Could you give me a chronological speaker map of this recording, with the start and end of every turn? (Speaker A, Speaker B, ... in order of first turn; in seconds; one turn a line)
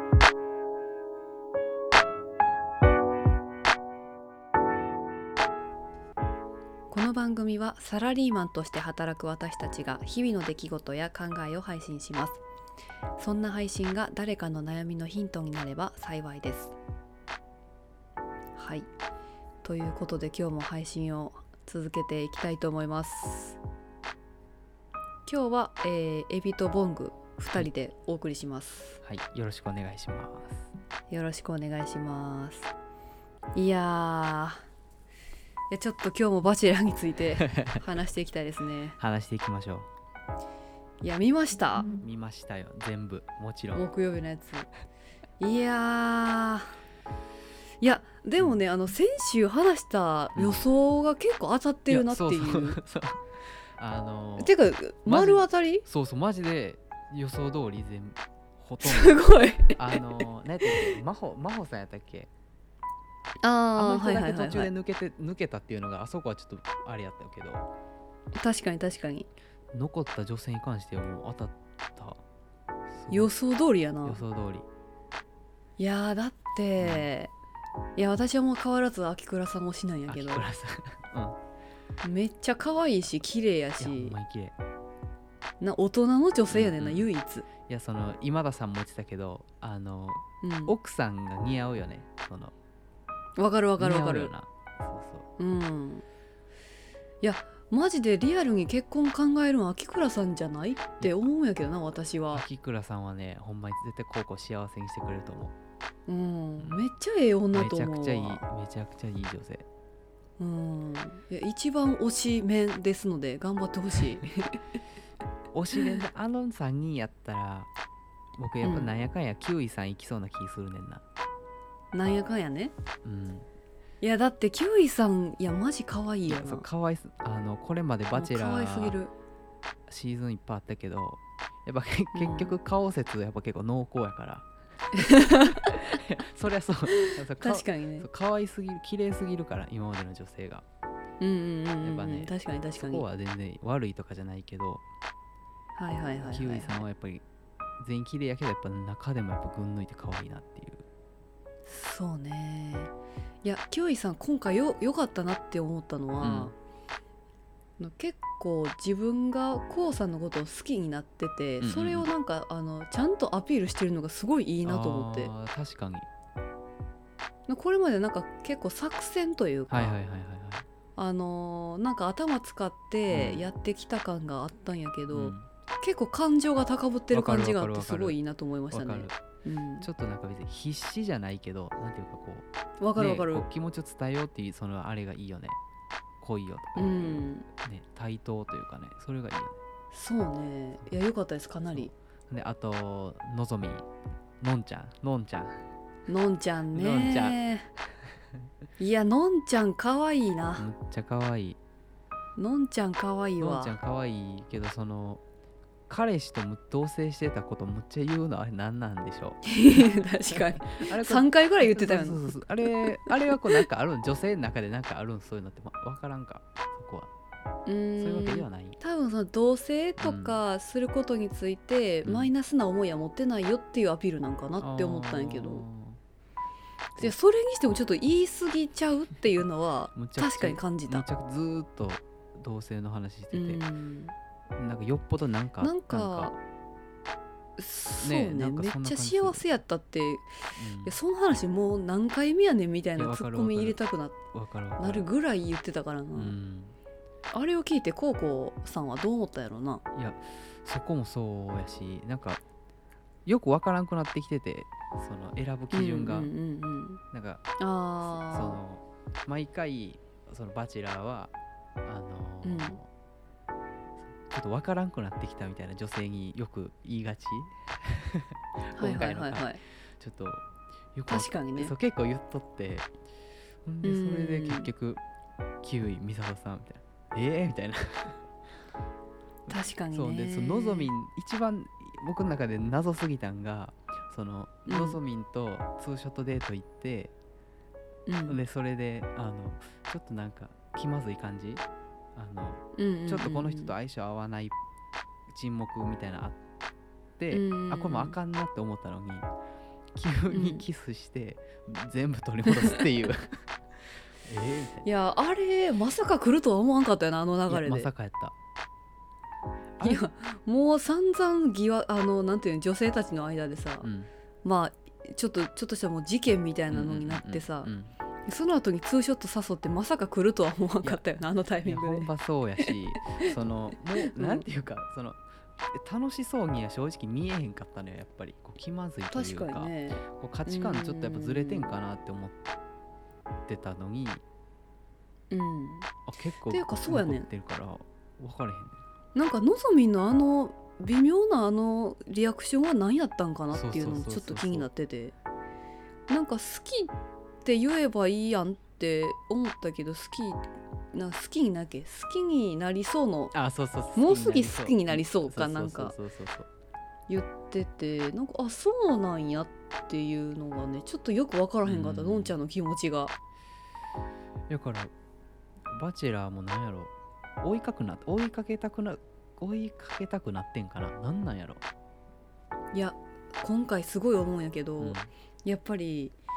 Speaker A: 6.9-12.4
Speaker A: 13.2-16.7
Speaker A: 18.6-18.9
Speaker A: 19.6-23.6
Speaker A: 25.2-29.0
Speaker B: 29.0-30.7
Speaker A: 31.1-32.7
Speaker A: 33.5-34.6
Speaker A: 35.7-39.0
Speaker B: 37.4-37.8
Speaker B: 39.0-39.9
Speaker A: 41.0-42.0
Speaker B: 42.0-43.8
Speaker A: 43.7-44.7
Speaker A: 45.4-46.8
Speaker A: 47.8-52.8
Speaker B: 50.3-50.6
Speaker B: 51.9-54.5
Speaker A: 54.4-55.8
Speaker B: 55.0-62.3
Speaker A: 58.8-60.9
Speaker A: 63.4-64.7
Speaker B: 63.8-67.7
Speaker A: 68.3-69.3
Speaker B: 69.7-72.2
Speaker B: 72.9-73.3
Speaker A: 73.1-74.2
Speaker B: 74.0-74.7
Speaker A: 75.8-77.3
Speaker B: 76.8-77.1
Speaker A: 78.0-80.5
Speaker B: 80.1-81.4
Speaker A: 82.0-84.1
Speaker B: 83.8-84.5
Speaker A: 85.6-87.5
Speaker B: 86.5-87.1
Speaker B: 87.6-92.5
Speaker A: 90.4-90.7
Speaker A: 93.4-94.3
Speaker B: 93.8-95.2
Speaker A: 95.4-96.0
Speaker A: 97.2-102.4
Speaker B: 102.3-105.5
Speaker A: 106.1-108.4
Speaker B: 107.5-109.7
Speaker A: 110.4-114.6
Speaker B: 115.5-117.7
Speaker B: 118.4-121.0
Speaker A: 118.6-118.9
Speaker A: 121.9-122.7
Speaker B: 123.0-123.5
Speaker A: 124.0-126.7
Speaker B: 126.2-129.0
Speaker A: 128.1-129.1
Speaker B: 129.9-134.5
Speaker A: 132.1-132.5
Speaker A: 134.9-136.0
Speaker B: 135.0-140.6
Speaker A: 136.9-138.1
Speaker A: 141.2-143.0
Speaker B: 141.8-144.8
Speaker A: 145.8-146.8
Speaker B: 146.3-147.2
Speaker B: 147.8-150.8
Speaker A: 151.7-152.9
Speaker A: 153.4-156.5
Speaker B: 156.2-156.5
Speaker A: 157.8-165.3
Speaker B: 161.6-162.1
Speaker B: 164.6-166.1
Speaker A: 167.5-170.0
Speaker B: 169.7-170.6
Speaker A: 170.9-179.9
Speaker B: 173.1-173.4
Speaker B: 175.1-175.5
Speaker B: 177.1-178.2
Speaker B: 178.7-179.1
Speaker B: 179.8-185.6
Speaker A: 182.8-183.5
Speaker B: 186.2-189.6
Speaker A: 186.8-187.5
Speaker A: 189.9-191.9
Speaker B: 191.7-193.9
Speaker B: 194.4-195.6
Speaker A: 196.1-197.7
Speaker B: 196.7-197.4
Speaker A: 198.8-200.7
Speaker B: 200.6-201.6
Speaker A: 202.3-203.8
Speaker B: 203.4-205.2
Speaker B: 205.9-217.1
Speaker A: 209.4-213.6
Speaker A: 217.7-225.6
Speaker B: 218.0-218.8
Speaker B: 220.0-220.4
Speaker B: 222.0-222.3
Speaker B: 224.6-226.0
Speaker A: 226.9-231.1
Speaker B: 229.9-233.6
Speaker A: 233.3-234.1
Speaker B: 234.5-236.3
Speaker A: 235.6-236.3
Speaker A: 237.6-244.2
Speaker B: 238.0-239.4
Speaker B: 240.6-240.9
Speaker B: 242.9-243.8
Speaker B: 244.3-245.1
Speaker A: 244.8-246.3
Speaker B: 246.2-246.8
Speaker A: 247.3-249.8
Speaker B: 249.9-252.4
Speaker B: 253.2-256.3
Speaker A: 255.7-257.0
Speaker B: 257.1-257.4
Speaker A: 257.6-258.6
Speaker B: 258.0-261.3
Speaker B: 261.8-262.9
Speaker A: 262.4-262.8
Speaker B: 264.2-272.9
Speaker A: 268.7-269.6
Speaker A: 271.1-271.7
Speaker B: 273.6-275.0
Speaker A: 273.8-274.7
Speaker B: 275.6-278.2
Speaker B: 279.5-287.1
Speaker A: 279.5-280.9
Speaker A: 284.7-285.0
Speaker A: 288.1-288.4
Speaker B: 288.3-291.6
Speaker B: 292.1-294.5
Speaker A: 292.8-293.7
Speaker B: 295.3-296.4
Speaker B: 297.2-299.3
Speaker A: 297.3-298.2
Speaker B: 299.9-303.4
Speaker A: 300.3-300.6
Speaker A: 302.4-302.8
Speaker B: 304.2-304.9
Speaker A: 304.8-307.9
Speaker B: 307.5-308.3
Speaker B: 309.8-310.0
Speaker A: 309.8-313.9
Speaker B: 313.8-314.1
Speaker A: 314.4-317.7
Speaker B: 316.7-317.9
Speaker A: 318.2-322.1
Speaker B: 321.6-332.4
Speaker A: 322.6-323.3
Speaker A: 324.0-324.4
Speaker A: 329.1-331.7
Speaker B: 333.5-334.2
Speaker A: 335.3-335.9
Speaker B: 336.1-338.8
Speaker A: 336.5-337.2
Speaker A: 339.1-345.1
Speaker B: 343.5-344.7
Speaker A: 346.1-346.9
Speaker A: 347.4-353.3
Speaker B: 353.3-356.5
Speaker A: 353.9-355.9
Speaker A: 357.1-363.1
Speaker B: 361.6-362.3
Speaker B: 364.5-364.9
Speaker B: 365.7-371.6
Speaker A: 372.7-376.1
Speaker B: 374.8-375.1